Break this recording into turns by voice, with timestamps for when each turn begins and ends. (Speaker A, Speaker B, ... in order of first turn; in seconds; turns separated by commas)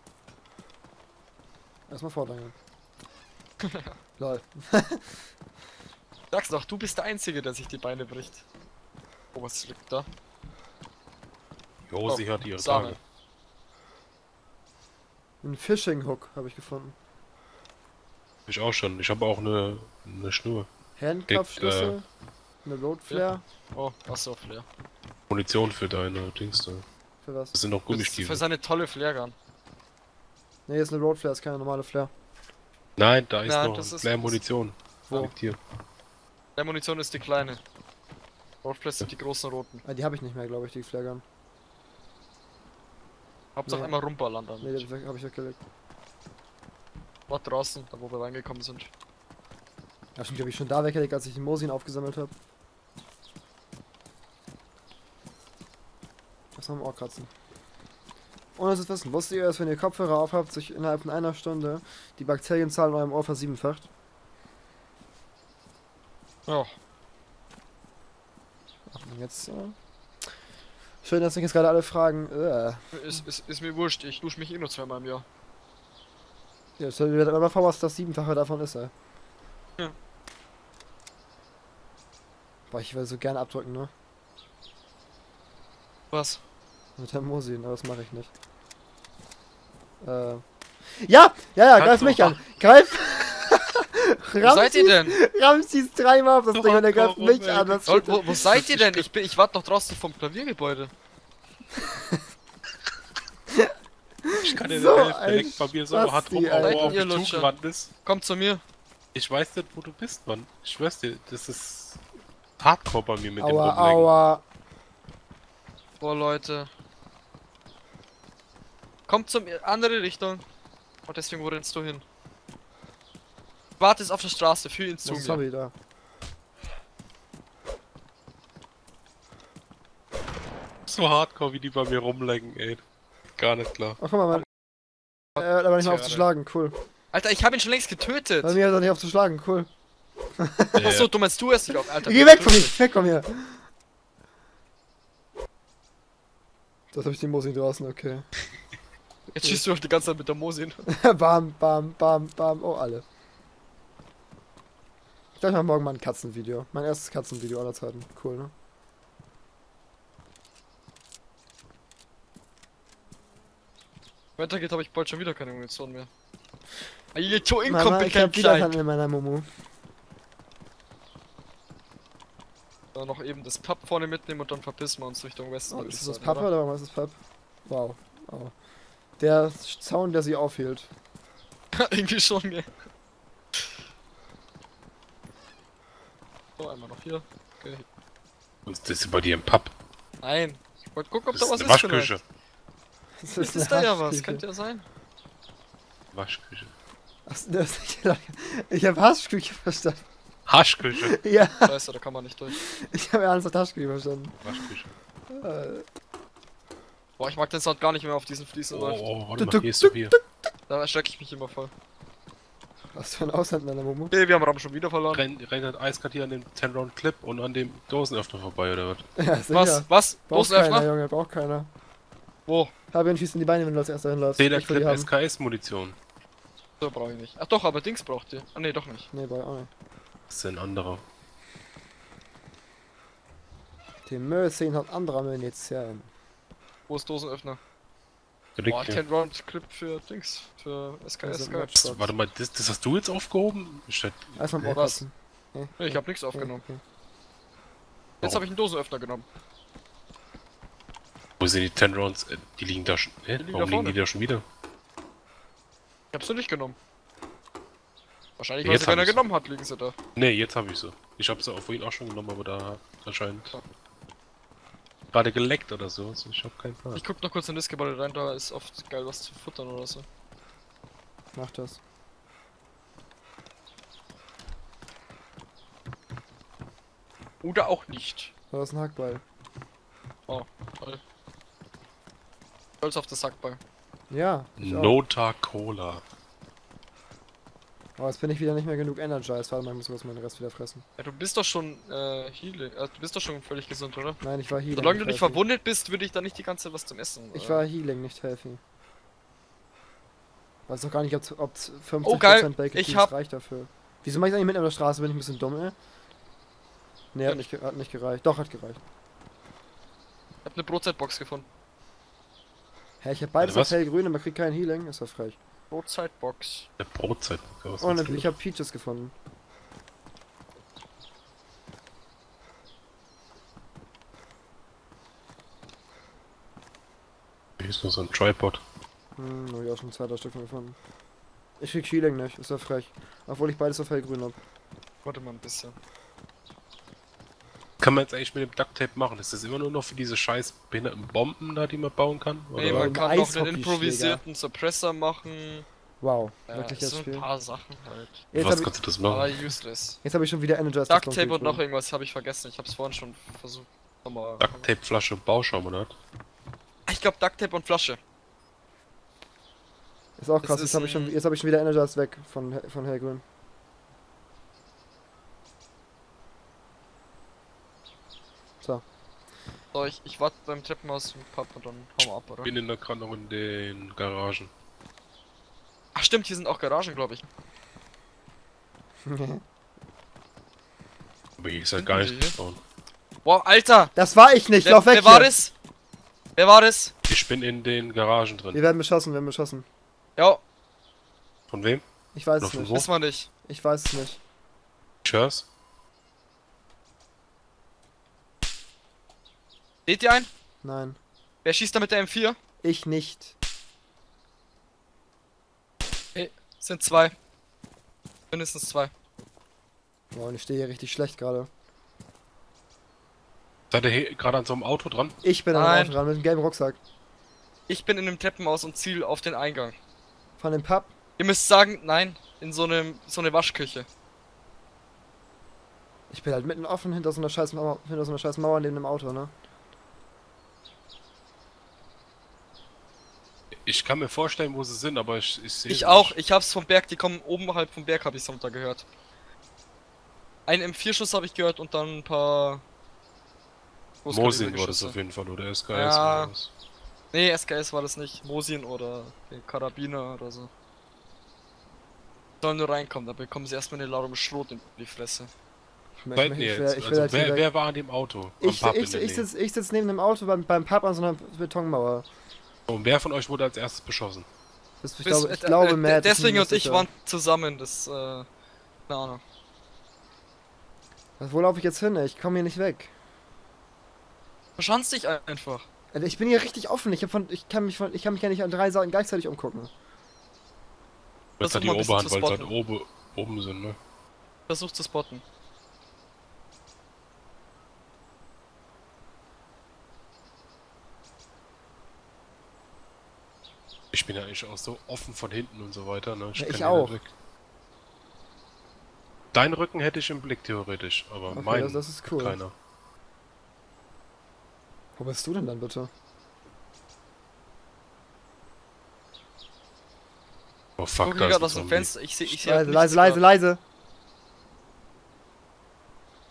Speaker A: 1.9-2.5, Speaker B: 3.6-3.9, Speaker A: 4.2-5.2, Speaker B: 6.3-8.4, Speaker B: 9.3-10.1, Speaker C: 11.9-13.0, Speaker B: 12.0-13.0, Speaker A: 15.4-16.9, Speaker C: 18.5-20.7, Speaker A: 21.0-22.1, Speaker C: 21.3-21.9, Speaker A: 22.6-23.4, Speaker B: 23.1-24.6, Speaker C: 25.3-26.8, Speaker A: 27.2-27.5, Speaker C: 27.5-28.4, Speaker B: 27.9-29.3, Speaker A: 30.7-32.1, Speaker C: 33.0-35.6, Speaker B: 33.4-34.4, Speaker A: 35.1-35.3, Speaker B: 36.5-37.6, Speaker B: 38.6-39.8, Speaker A: 39.8-41.2, Speaker B: 43.5-44.9, Speaker A: 43.7-44.0, Speaker A: 44.6-45.6, Speaker B: 47.3-48.9, Speaker A: 50.1-52.3, Speaker A: 56.5-57.3, Speaker A: 58.5-63.9, Speaker B: 66.5-66.7, Speaker A: 68.9-69.8, Speaker A: 71.0-73.2, Speaker B: 72.9-75.2, Speaker A: 76.8-78.9, Speaker A: 82.7-83.9, Speaker B: 86.1-86.4, Speaker A: 87.0-88.3, Speaker A: 90.0-98.4, Speaker B: 91.8-92.4, Speaker B: 94.4-95.1, Speaker C: 96.5-99.0, Speaker B: 97.9-100.9, Speaker A: 104.2-107.0, Speaker C: 104.4-107.9, Speaker B: 106.6-107.5, Speaker B: 108.0-108.6, Speaker C: 109.1-112.0, Speaker C: 112.6-114.1, Speaker A: 113.4-114.4, Speaker B: 116.0-116.7, Speaker B: 119.1-120.4, Speaker B: 121.1-122.0, Speaker B: 123.8-125.4, Speaker A: 125.0-125.7, Speaker C: 130.9-132.8, Speaker C: 133.3-134.0, Speaker A: 134.0-134.4, Speaker B: 135.4-136.2, Speaker A: 135.4-136.8, Speaker B: 137.1-138.6, Speaker A: 138.4-139.7, Speaker A: 140.4-140.8, Speaker C: 140.7-141.1, Speaker B: 140.8-142.8, Speaker A: 142.0-143.6, Speaker A: 146.9-148.3, Speaker A: 149.3-149.6, Speaker B: 149.3-150.8, Speaker A: 150.9-153.0, Speaker A: 155.4-158.5, Speaker B: 164.4-166.1, Speaker B: 167.1-168.8, Speaker A: 167.6-169.5, Speaker B: 172.9-176.5, Speaker A: 175.7-178.5, Speaker A: 179.2-180.9, Speaker B: 181.7-182.7, Speaker B: 186.6-187.8, Speaker C: 188.7-189.7, Speaker B: 190.2-192.1, Speaker C: 191.3-192.2, Speaker A: 193.2-194.4, Speaker B: 193.4-194.8, Speaker C: 196.1-196.7, Speaker A: 197.3-200.0, Speaker C: 200.5-201.1, Speaker A: 201.0-201.8, Speaker B: 201.6-202.6, Speaker A: 202.5-204.4, Speaker C: 204.4-204.9, Speaker A: 205.3-205.8, Speaker B: 207.2-209.0, Speaker C: 208.7-210.1, Speaker A: 209.4-210.2, Speaker B: 210.7-211.7, Speaker A: 212.9-214.1, Speaker B: 214.1-215.2, Speaker C: 215.1-219.0, Speaker A: 219.2-221.7, Speaker B: 219.5-220.9, Speaker B: 222.5-222.7, Speaker A: 222.9-225.1, Speaker C: 224.4-225.9, Speaker B: 226.8-229.1, Speaker A: 229.1-229.7, Speaker C: 230.3-231.0, Speaker A: 234.1-236.1, Speaker B: 236.9-237.6, Speaker C: 238.6-239.0, Speaker B: 238.7-241.7, Speaker A: 241.2-242.1, Speaker C: 241.8-244.8, Speaker A: 244.4-246.8, Speaker B: 244.7-245.0, Speaker B: 245.8-246.6, Speaker B: 248.2-249.3, Speaker C: 251.4-254.4, Speaker B: 253.4-254.0, Speaker B: 256.1-256.8, Speaker B: 258.4-259.9, Speaker C: 258.6-259.2, Speaker C: 260.1-263.5, Speaker C: 265.1-267.0, Speaker B: 266.9-270.1, Speaker A: 271.3-271.8, Speaker B: 277.4-278.3, Speaker A: 278.5-279.2, Speaker B: 280.3-281.0, Speaker B: 282.8-283.6, Speaker A: 284.1-285.0, Speaker C: 284.6-286.0, Speaker A: 288.0-290.8, Speaker B: 291.0-297.6, Speaker A: 294.2-295.4, Speaker A: 297.3-298.6, Speaker A: 300.7-305.8, Speaker B: 302.0-303.1, Speaker A: 307.1-308.8, Speaker B: 310.4-311.5, Speaker A: 313.0-315.4, Speaker C: 313.4-313.8, Speaker B: 315.7-316.7, Speaker C: 316.8-318.3, Speaker A: 317.8-319.1, Speaker C: 327.6-328.6, Speaker A: 329.2-330.8, Speaker A: 331.6-334.4, Speaker B: 335.0-335.8, Speaker C: 337.8-342.9, Speaker B: 342.5-345.6, Speaker A: 342.6-344.2, Speaker A: 346.0-347.3, Speaker B: 346.5-348.2, Speaker A: 348.3-348.7, Speaker C: 348.3-349.4, Speaker B: 349.1-350.0, Speaker A: 350.0-351.6, Speaker B: 350.9-354.7, Speaker C: 354.4-355.9, Speaker B: 356.9-358.0, Speaker A: 360.2-363.2, Speaker B: 360.4-361.2, Speaker B: 369.7-372.5, Speaker C: 372.4-374.5, Speaker B: 375.9-377.3, Speaker A: 379.1-379.4, Speaker C: 381.4-382.6, Speaker B: 381.8-382.4, Speaker B: 383.2-383.9, Speaker A: 383.9-385.3, Speaker B: 384.6-385.5, Speaker B: 386.4-386.9, Speaker C: 387.1-388.6, Speaker A: 388.5-389.6, Speaker B: 390.2-390.4, Speaker C: 391.5-391.8, Speaker A: 392.1-392.8, Speaker C: 392.4-392.9, Speaker B: 392.7-393.3, Speaker A: 393.4-394.2, Speaker C: 395.0-395.5, Speaker B: 399.9-400.3, Speaker A: 400.6-401.0, Speaker B: 401.4-402.4, Speaker A: 402.6-403.4, Speaker B: 406.1-407.1, Speaker B: 408.3-408.9, Speaker A: 410.1-411.5, Speaker C: 413.7-415.1, Speaker A: 415.2-416.8, Speaker B: 415.5-416.0, Speaker B: 417.7-419.8, Speaker A: 420.4-420.9, Speaker B: 421.2-423.9, Speaker A: 426.1-429.3, Speaker C: 433.6-436.2, Speaker B: 435.7-438.9, Speaker B: 440.5-442.6, Speaker B: 444.0-445.0, Speaker C: 444.1-446.5, Speaker B: 445.7-446.3, Speaker B: 447.1-450.5, Speaker B: 452.4-455.3, Speaker A: 456.0-457.4, Speaker C: 456.1-459.3, Speaker A: 458.4-462.1, Speaker C: 462.7-464.2, Speaker A: 464.8-466.9, Speaker B: 465.0-468.3, Speaker B: 468.9-469.2, Speaker A: 471.2-472.9, Speaker B: 474.6-475.7, Speaker A: 475.9-479.7, Speaker C: 481.4-483.8, Speaker B: 481.4-482.5, Speaker B: 484.5-485.2, Speaker C: 493.9-497.1, Speaker A: 496.3-497.0, Speaker C: 499.3-502.5, Speaker A: 501.3-502.4, Speaker A: 505.0-505.9, Speaker C: 510.8-511.9, Speaker B: 511.0-513.2, Speaker A: 512.2-513.6